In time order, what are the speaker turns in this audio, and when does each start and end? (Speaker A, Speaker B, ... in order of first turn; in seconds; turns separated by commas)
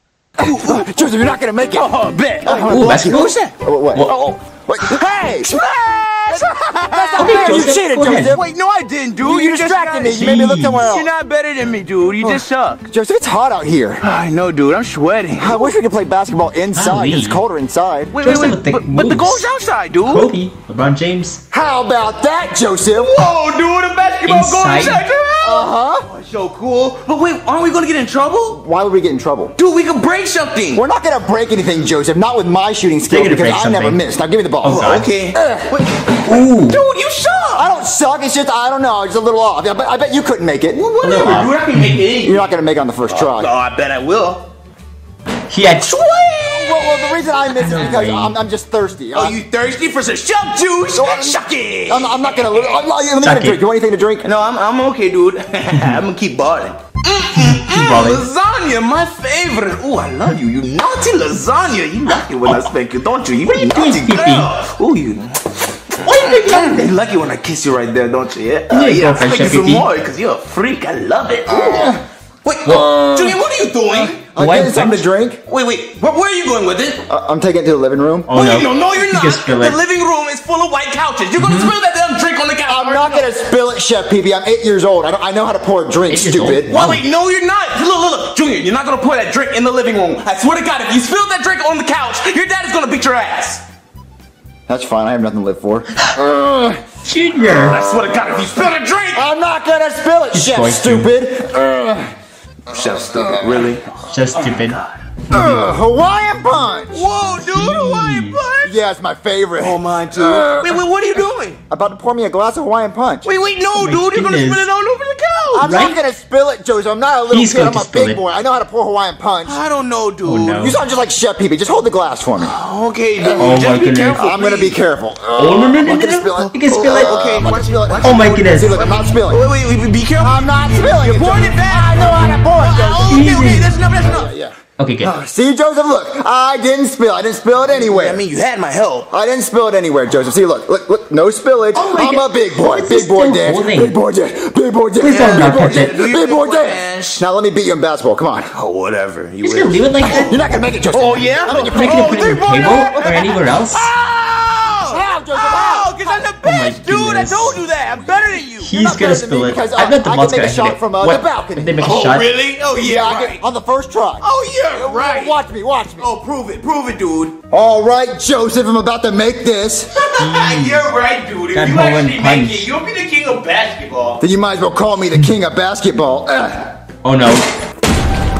Speaker A: 0.4-12.8, Speaker B: 0.4-5.6, Speaker C: 2.7-3.3, Speaker B: 6.3-8.5, Speaker C: 7.2-8.3, Speaker B: 9.2-11.1, Speaker C: 10.1-10.9, Speaker B: 12.2-14.1, Speaker A: 14.0-15.7, Speaker B: 15.4-18.2, Speaker C: 16.7-17.4, Speaker A: 18.1-20.3, Speaker C: 18.2-19.5, Speaker C: 20.0-21.4, Speaker B: 21.5-23.3, Speaker A: 22.9-28.6, Speaker C: 24.2-25.0, Speaker B: 25.4-26.0, Speaker B: 28.5-29.5, Speaker A: 29.6-30.8, Speaker B: 30.7-35.7, Speaker C: 33.1-34.0, Speaker C: 34.6-35.0, Speaker A: 34.6-37.7, Speaker C: 36.3-36.8, Speaker B: 37.5-40.8, Speaker A: 40.7-42.4, Speaker C: 41.0-42.0, Speaker B: 42.2-43.5, Speaker A: 43.1-44.5, Speaker C: 45.5-45.9, Speaker A: 45.8-47.4, Speaker B: 46.4-49.4, Speaker C: 47.6-48.4, Speaker A: 49.1-52.9, Speaker B: 50.9-54.3, Speaker C: 53.2-53.6, Speaker A: 54.2-74.3, Speaker C: 57.3-58.2, Speaker C: 63.5-64.5, Speaker C: 66.0-66.9, Speaker C: 68.7-69.9, Speaker B: 71.5-72.0, Speaker C: 72.7-73.2, Speaker B: 74.1-75.4, Speaker C: 74.2-75.0, Speaker A: 75.5-77.0, Speaker B: 77.1-78.3, Speaker C: 78.3-79.8, Speaker A: 78.3-83.3, Speaker C: 81.4-81.7, Speaker B: 82.7-86.8, Speaker C: 86.1-87.0, Speaker A: 86.7-93.6, Speaker B: 94.7-96.8, Speaker C: 97.0-97.8, Speaker A: 97.5-99.3, Speaker B: 99.1-102.1, Speaker C: 100.3-101.1, Speaker A: 102.7-105.0, Speaker B: 102.8-103.6, Speaker C: 104.1-104.8, Speaker B: 105.3-107.1, Speaker A: 106.9-108.8, Speaker C: 107.5-108.4, Speaker B: 108.6-110.8, Speaker A: 109.6-111.6, Speaker B: 111.7-113.3, Speaker A: 113.2-115.7, Speaker C: 113.7-114.7, Speaker B: 115.5-119.6, Speaker C: 115.6-116.0, Speaker C: 117.3-118.2, Speaker A: 119.4-120.7, Speaker C: 120.2-120.8, Speaker B: 120.5-122.5, Speaker A: 122.4-124.8, Speaker B: 123.2-123.6, Speaker C: 123.4-124.2, Speaker B: 124.2-129.4, Speaker C: 125.4-127.1, Speaker A: 125.8-134.3, Speaker C: 128.0-128.8, Speaker B: 130.2-138.2, Speaker C: 133.1-133.7, Speaker C: 134.8-135.1, Speaker A: 137.7-139.1, Speaker B: 139.1-148.5, Speaker C: 141.7-143.9, Speaker C: 145.0-146.0, Speaker A: 145.0-147.2, Speaker A: 148.5-150.4, Speaker C: 149.4-150.4, Speaker B: 150.1-153.2, Speaker A: 150.9-158.7, Speaker C: 151.5-153.9, Speaker B: 154.9-156.2, Speaker C: 156.4-157.6, Speaker C: 158.6-162.3, Speaker B: 158.7-161.7, Speaker A: 161.8-163.4, Speaker B: 162.8-166.1, Speaker A: 164.2-165.3, Speaker A: 166.0-167.4, Speaker B: 167.5-169.9, Speaker A: 169.9-174.2, Speaker C: 170.2-170.9, Speaker C: 171.5-172.7, Speaker B: 174.2-176.7, Speaker C: 177.0-177.4